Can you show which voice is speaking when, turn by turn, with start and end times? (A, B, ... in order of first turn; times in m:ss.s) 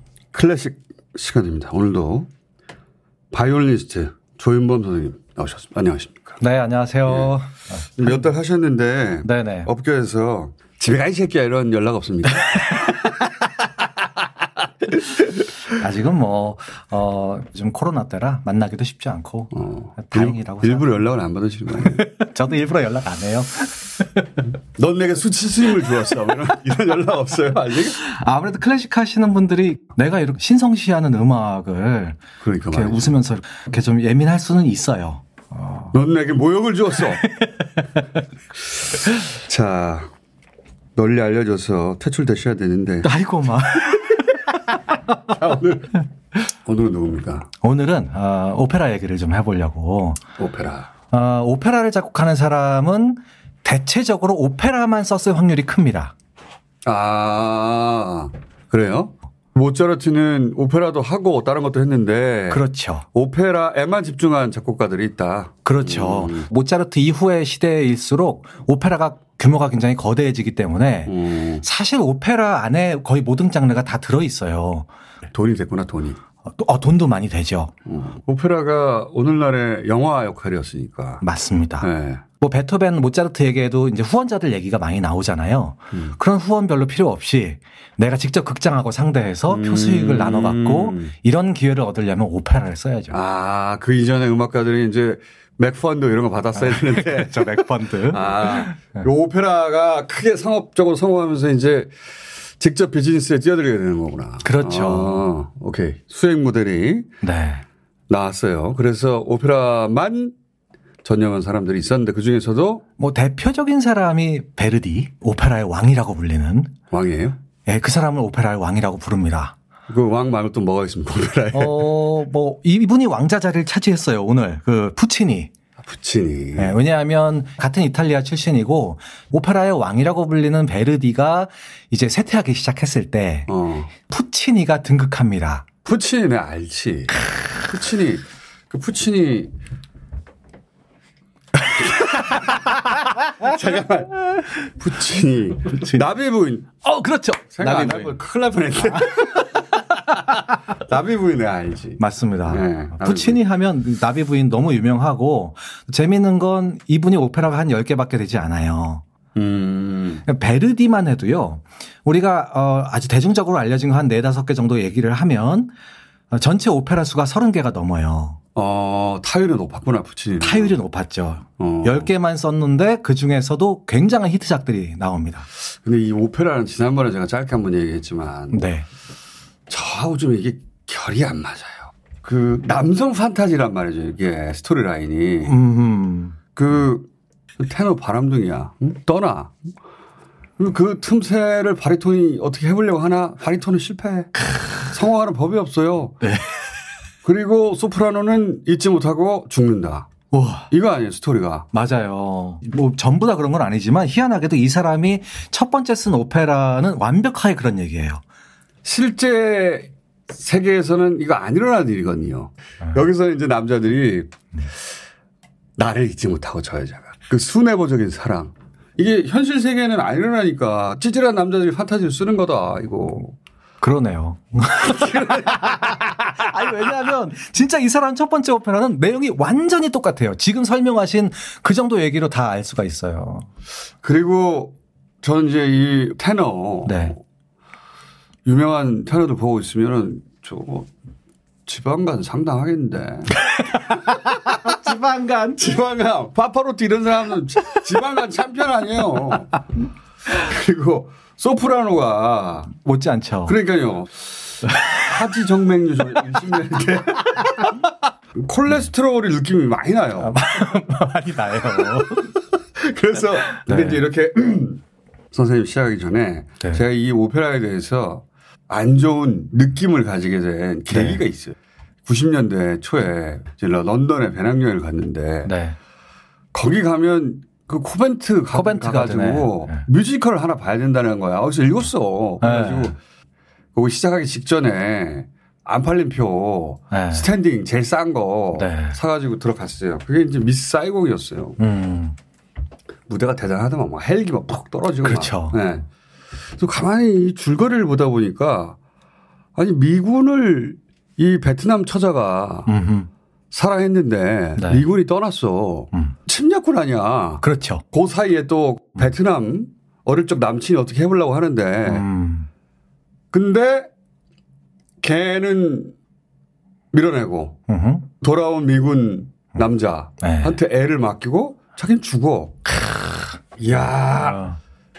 0:00.3-0:02.3 A
0:03.3-0:06.4 A
0:06.4-0:07.9 B
0:08.0-0:13.0 A
0:09.2-0:09.7 B
0:15.7-0:20.9 B
0:19.5-0:22.0 A
0:21.8-0:24.4 B
0:24.8-0:28.0 A
0:28.0-0:32.2 B
0:32.4-0:33.1 A
0:32.7-0:35.9 B
0:35.9-0:37.2 A
0:37.2-0:37.7 B
0:39.4-0:40.1 A
0:41.0-0:43.1 A
0:43.0-0:44.8 B
0:45.3-0:46.0 A
0:46.6-0:47.5 A
0:47.6-0:50.2 B
0:50.4-0:50.9 A
0:51.1-0:56.1 B
0:56.8-1:06.5 A
1:02.5-1:03.0 B
1:05.6-1:14.9 B
1:11.1-1:11.6 A
1:15.3-1:16.2 A
1:16.4-1:17.7 B
1:17.9-1:21.2 A
1:21.2-1:21.9 B
1:21.8-1:22.2 A
1:22.4-1:33.2 B
1:25.9-1:26.2 A
1:29.5-1:31.1 A
1:33.1-1:41.9 A
1:36.6-1:39.0 B
1:42.6-1:47.1 A
1:44.4-1:45.2 B
1:47.2-1:47.6 B
1:48.1-1:50.3 A
1:51.0-1:52.8 A
1:53.0-1:56.7 B
1:56.9-1:57.4 A
1:57.6-1:59.6 B
1:59.9-2:01.9 A
2:01.5-2:05.5 B
2:05.8-2:06.8 A
2:06.6-2:15.6 B
2:13.5-2:13.9 A
2:15.8-2:19.5 A
2:21.8-2:22.4 A
2:23.4-2:26.8 A
2:26.8-2:28.2 B
2:27.5-2:29.6 A
2:30.8-2:33.4 A
2:32.0-2:39.0 B
2:39.4-2:40.2 A
2:40.2-2:45.7 B
2:46.3-2:48.4 B
2:48.5-2:50.8 A
2:50.4-2:55.5 B
2:51.6-2:52.1 A
2:55.8-2:58.6 A
2:58.5-2:58.8 B
2:59.7-3:05.6 A
3:05.5-3:06.4 B
3:06.5-3:07.1 A
3:07.6-3:09.6 A
3:10.6-3:16.2 A
3:16.2-3:16.7 B
3:17.2-3:20.1 A
3:20.3-3:20.7 B
3:20.7-3:21.7 A
3:21.7-3:28.2 B
3:28.8-3:34.3 A
3:35.8-3:43.4 A
3:43.8-3:53.5 B
3:44.8-3:46.5 A
3:54.0-3:57.2 A
3:56.8-3:57.1 B
3:58.4-4:00.9 A
4:01.6-4:03.4 A
4:03.4-4:05.7 B
4:04.0-4:04.5 A
4:05.6-4:09.6 A
4:10.3-4:12.7 A
4:12.7-4:13.6 B
4:13.4-4:20.4 A
4:14.7-4:15.0 B
4:20.2-4:22.3 B
4:22.7-4:24.8 A
4:23.6-4:24.0 B
4:25.3-4:35.5 A
4:30.9-4:31.2 B
4:35.4-4:35.8 B
4:36.5-4:43.0 A
4:38.5-4:39.8 B
4:42.4-4:42.9 B
4:43.7-4:51.6 A
4:46.9-4:47.3 B
4:48.6-4:49.0 B
4:51.6-4:52.1 B
4:53.1-4:55.8 A
4:55.0-4:55.6 B
4:56.6-4:58.8 A
4:59.6-5:02.7 A
5:02.7-5:03.1 B
5:03.5-5:12.1 A
5:04.6-5:04.8 B
5:07.4-5:07.8 B
5:11.9-5:12.5 B
5:13.3-5:13.9 A
5:15.0-5:15.9 A
5:16.9-5:17.6 A
5:17.7-5:18.0 B
5:18.2-5:22.7 A
5:20.2-5:20.6 B
5:22.8-5:23.3 B
5:23.6-5:24.4 A
5:24.2-5:24.6 B